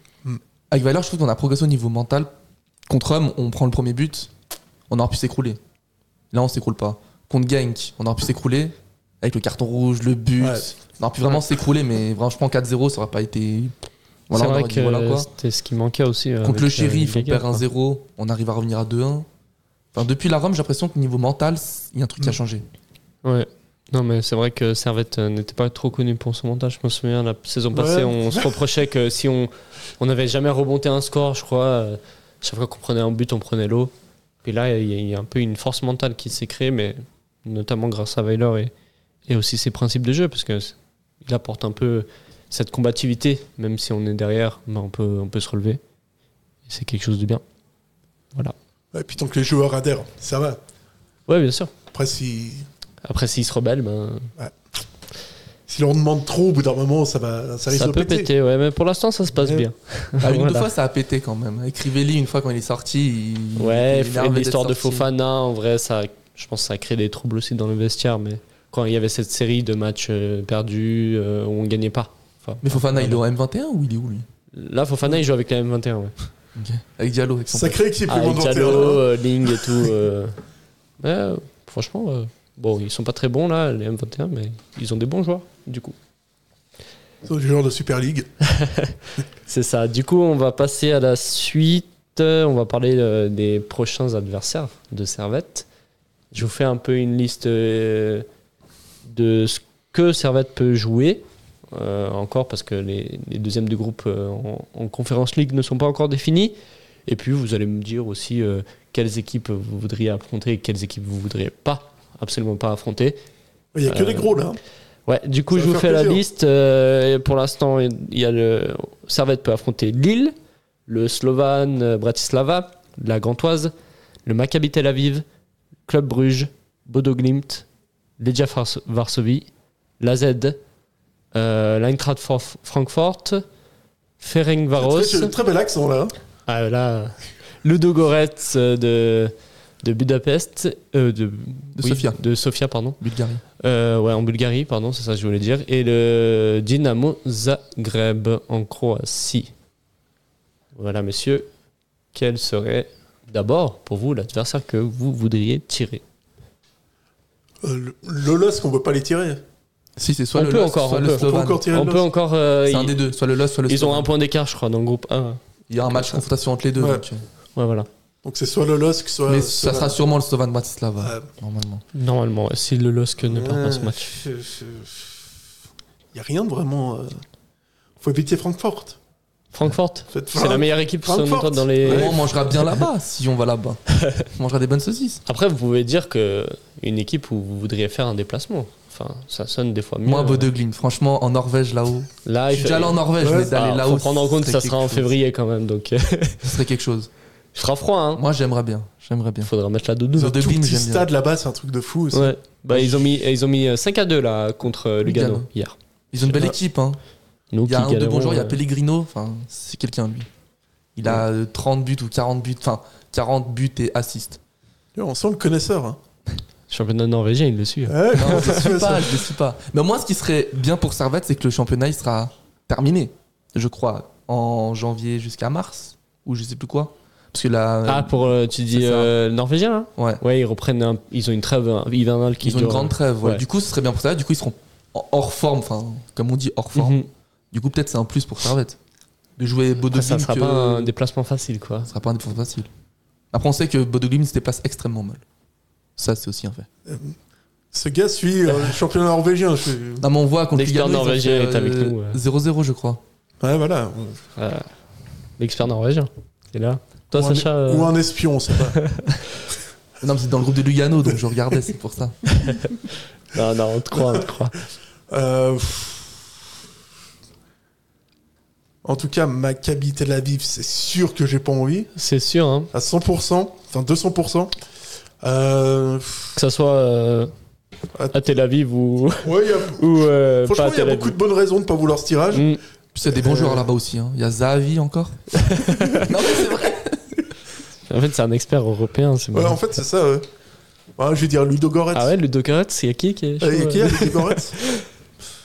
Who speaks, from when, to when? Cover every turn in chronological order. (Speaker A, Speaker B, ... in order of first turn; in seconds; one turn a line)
Speaker A: 0.7-2.3
Speaker A: 2.9-4.3
Speaker A: 4.9-5.6
Speaker A: 6.3-13.7
Speaker B: 10.4-10.7
Speaker A: 14.3-15.3
Speaker C: 14.3-17.6
Speaker A: 16.4-19.3
Speaker A: 19.9-22.6
Speaker C: 23.2-33.9
Speaker B: 27.7-28.6
Speaker C: 34.4-38.7
Speaker C: 39.3-45.8
Speaker C: 46.7-47.4
Speaker B: 48.9-50.6
Speaker C: 51.3-51.7
Speaker B: 51.9-52.7
Speaker C: 53.0-54.3
Speaker B: 55.7-58.3
Speaker C: 57.7-60.7
Speaker B: 59.3-59.7
Speaker A: 60.2-65.1
Speaker C: 63.6-73.2
Speaker A: 72.6-74.3
Speaker C: 74.5-76.1
Speaker A: 76.5-77.8
Speaker B: 77.5-79.9
Speaker C: 78.1-80.4
Speaker C: 81.0-85.9
Speaker B: 87.2-88.3
Speaker C: 88.5-95.7
Speaker C: 96.3-98.3
Speaker C: 99.0-113.2
Speaker B: 113.7-114.6
Speaker C: 113.9-114.3
Speaker C: 115.1-120.3
Speaker B: 115.5-116.2
Speaker C: 120.9-123.7
Speaker C: 124.2-125.2
Speaker C: 125.9-127.7
Speaker C: 128.2-129.5
Speaker C: 130.0-130.6
Speaker C: 131.3-133.4
Speaker C: 134.2-135.3
Speaker B: 134.8-136.1
Speaker C: 136.5-143.0
Speaker A: 141.8-142.2
Speaker A: 143.0-143.4
Speaker C: 143.6-149.5
Speaker C: 150.7-151.5
Speaker C: 152.1-156.0
Speaker B: 157.6-159.4
Speaker A: 160.0-161.7
Speaker C: 160.3-163.0
Speaker B: 161.1-162.1
Speaker A: 162.6-164.1
Speaker C: 163.7-166.2
Speaker A: 165.7-167.2
Speaker B: 166.8-167.1
Speaker C: 167.6-167.9
Speaker B: 168.2-170.0
Speaker A: 169.3-171.8
Speaker B: 171.0-171.3
Speaker C: 171.9-174.1
Speaker B: 173.2-175.2
Speaker B: 176.1-177.2
Speaker B: 178.0-179.0
Speaker C: 179.5-182.2
Speaker B: 180.1-182.3
Speaker A: 181.8-185.2
Speaker C: 185.2-190.5
Speaker A: 190.0-195.1
Speaker C: 192.2-196.5
Speaker B: 193.2-193.5
Speaker A: 196.4-197.1
Speaker C: 197.5-198.2
Speaker A: 198.1-199.5
Speaker C: 199.4-200.3
Speaker A: 200.1-201.1
Speaker B: 200.2-203.2
Speaker C: 202.1-205.8
Speaker A: 205.0-205.5
Speaker A: 206.1-207.0
Speaker C: 207.5-208.6
Speaker A: 207.6-210.3
Speaker A: 211.0-214.4
Speaker B: 214.9-216.0
Speaker C: 216.7-218.5
Speaker B: 217.9-219.2
Speaker A: 218.1-229.1
Speaker C: 227.8-233.4
Speaker A: 229.9-230.2
Speaker A: 232.4-237.0
Speaker C: 236.7-237.1
Speaker A: 237.5-238.8
Speaker A: 239.4-240.9
Speaker C: 239.9-241.9
Speaker A: 241.8-242.7
Speaker A: 243.3-245.2
Speaker A: 246.0-246.7
Speaker B: 246.8-247.1
Speaker B: 247.7-250.1
Speaker A: 250.0-253.0
Speaker C: 250.5-252.2
Speaker B: 253.4-254.2
Speaker C: 254.4-254.7
Speaker C: 255.4-257.9
Speaker B: 257.1-258.8
Speaker C: 258.8-259.2
Speaker A: 260.0-262.2
Speaker C: 262.4-264.6
Speaker B: 265.1-266.2
Speaker B: 268.8-271.9
Speaker C: 271.9-272.7
Speaker B: 272.7-274.5
Speaker B: 275.2-276.3
Speaker C: 276.3-277.3
Speaker C: 278.1-281.1
Speaker B: 279.2-282.5
Speaker C: 282.3-282.6
Speaker A: 282.9-287.1
Speaker B: 283.1-283.7
Speaker C: 285.4-286.1
Speaker C: 287.9-289.6
Speaker B: 289.3-290.2
Speaker B: 291.0-292.1
Speaker C: 291.9-294.8
Speaker B: 293.4-294.6